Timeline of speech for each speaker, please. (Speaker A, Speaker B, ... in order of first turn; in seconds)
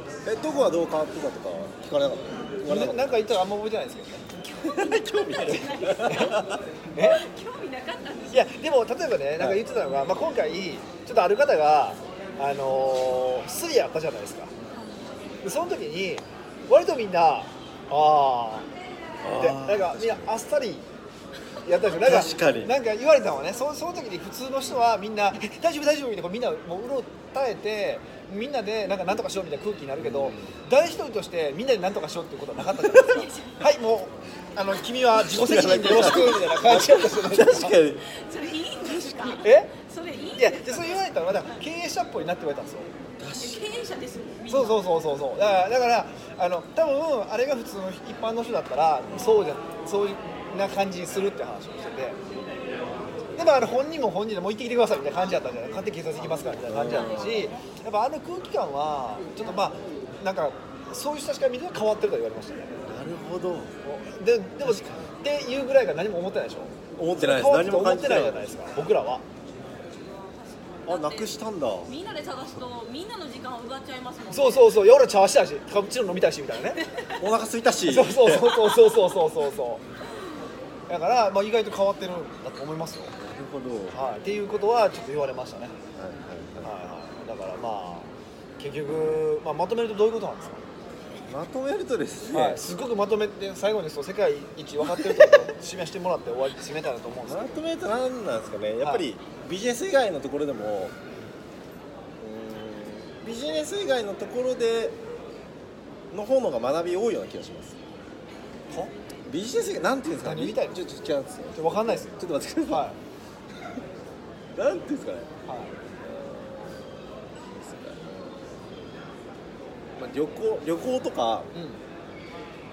Speaker A: 0.2-3.1, 4.6-6.6, 19.2-20.3, 22.0-22.7, 30.0-30.5, 35.2-38.0, 38.9-39.2, 43.2-43.7, 49.0-49.4, 56.6-57.5, 62.9-63.7, 64.6-65.0, 67.0-68.5, 70.8-71.9, 77.2-78.8, 83.2-84.0, 85.9-86.7, 91.3-92.6, 94.8-95.5, 97.3-100.9, 102.2-105.0, 106.1-107.8, 109.2-112.9, 114.5-115.3, 116.0-118.8, 120.0-121.5
Speaker B: 2.6-4.3, 5.9-6.4, 6.9-7.2, 8.3-14.5, 15.4-18.7, 19.3-20.9, 21.6-37.8, 39.4-39.7, 40.4-42.9, 44.5-52.2, 53.3-62.8, 63.8-69.2, 74.3-76.8, 77.8-79.8, 80.9-83.1, 83.9-85.7, 86.6-90.6, 92.3-97.5, 110.2-110.8, 111.5-112.2, 112.7-113.0, 115.5-115.7, 121.5-121.8
Speaker C: 4.3-8.5, 14.7-15.3, 32.9-33.7, 38.1-41.6, 43.4-44.9, 56.9-57.5, 70.0-71.3, 71.8-74.8